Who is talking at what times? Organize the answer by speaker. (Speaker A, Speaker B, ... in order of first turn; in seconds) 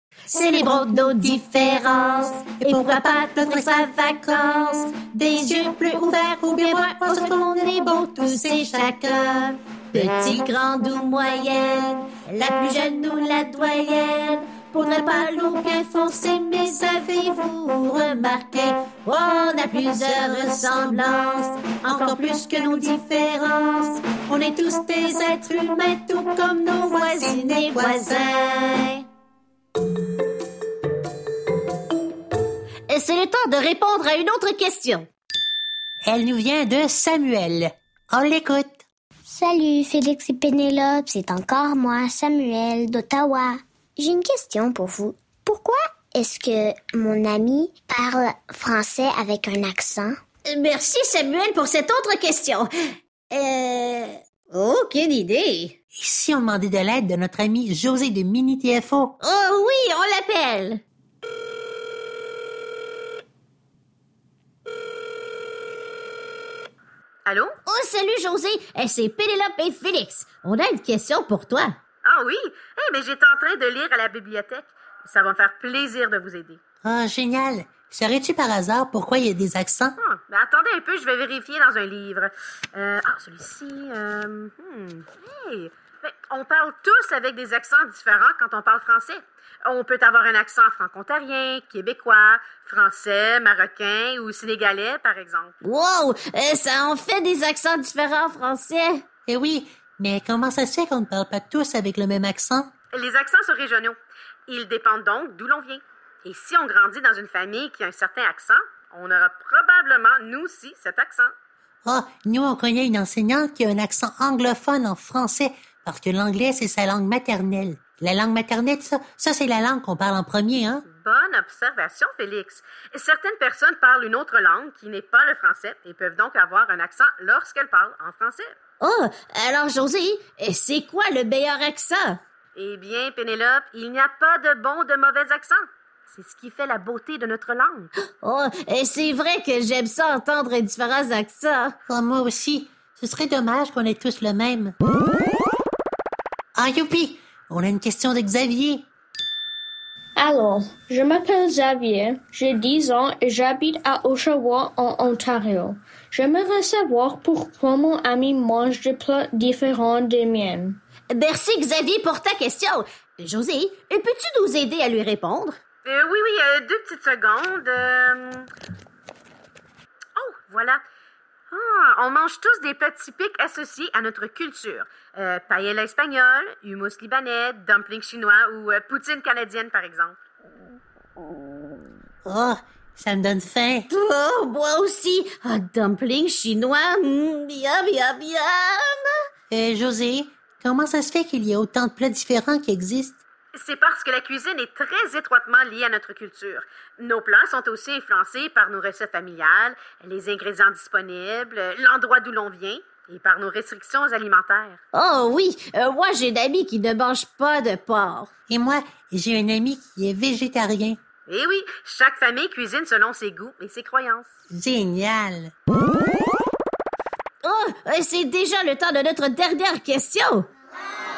Speaker A: 0.3-5.9, 6.6-25.5, 26.7-29.0, 32.9-35.1, 50.5-52.7, 53.3-55.7, 59.2-60.8, 67.7-71.8, 95.6-99.0, 128.8-132.2, 138.2-141.8, 161.1-165.6, 183.9-189.1, 204.9-208.3, 217.4-220.5
Speaker B: 0.4-1.5, 2.6-9.0, 9.9-10.5, 19.9-21.1, 21.9-23.5, 24.1-28.3, 36.0-38.8, 56.0-59.2, 76.8-80.0, 99.3-102.7, 111.9-120.8, 141.9-144.8, 146.6-148.9, 182.3-183.9, 189.5-193.2, 208.5-211.0, 214.5-215.5
Speaker C: 39.3-50.1
Speaker D: 67.3-67.5, 72.0-76.6, 80.0-95.5, 102.9-111.3, 121.0-128.5, 132.6-137.9, 165.9-168.5, 170.2-170.8, 171.5-180.2, 193.6-204.8, 211.3-214.3
Speaker E: 150.2-160.8